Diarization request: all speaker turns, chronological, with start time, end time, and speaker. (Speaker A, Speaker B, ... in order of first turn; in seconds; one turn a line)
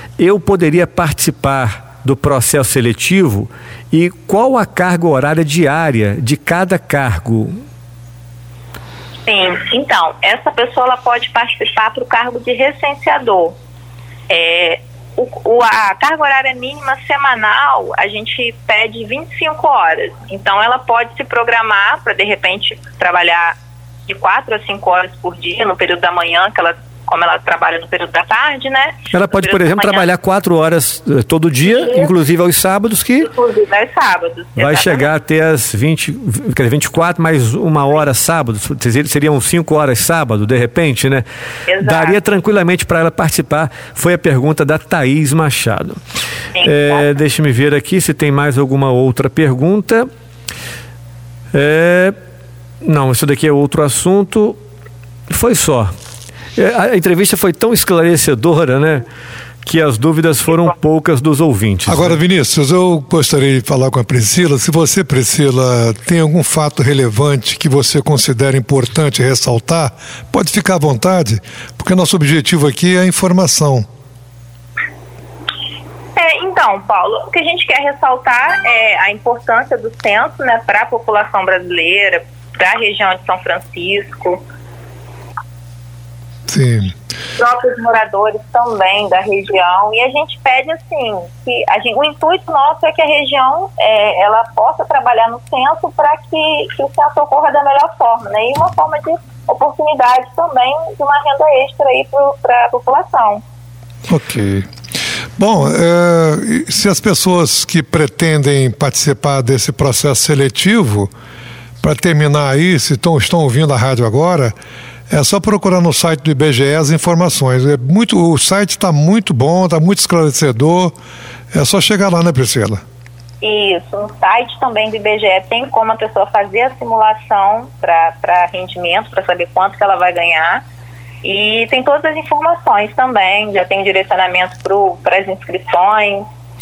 Speaker A: 0.2-7.6
Speaker B: 9.3-13.6
Speaker B: 14.3-23.6
Speaker B: 24.1-30.1
Speaker A: 29.1-33.3
Speaker B: 31.7-32.1
Speaker B: 33.2-35.1
Speaker A: 34.6-41.3
Speaker B: 41.7-42.2
Speaker A: 41.8-46.0
Speaker B: 46.6-47.1
Speaker A: 46.6-50.1
Speaker A: 51.5-52.2
Speaker A: 52.8-54.6
Speaker A: 55.3-55.9
Speaker A: 56.6-59.0
Speaker A: 59.6-62.2
Speaker C: 61.9-73.9
Speaker B: 76.2-84.4
Speaker C: 86.5-86.9
Speaker B: 87.4-103.4
Speaker C: 104.1-104.7
Speaker C: 105.4-111.1
Speaker C: 111.8-114.5
Speaker C: 115.1-120.9
Speaker C: 121.5-122.8
Speaker B: 123.4-130.6
Speaker B: 131.2-136.3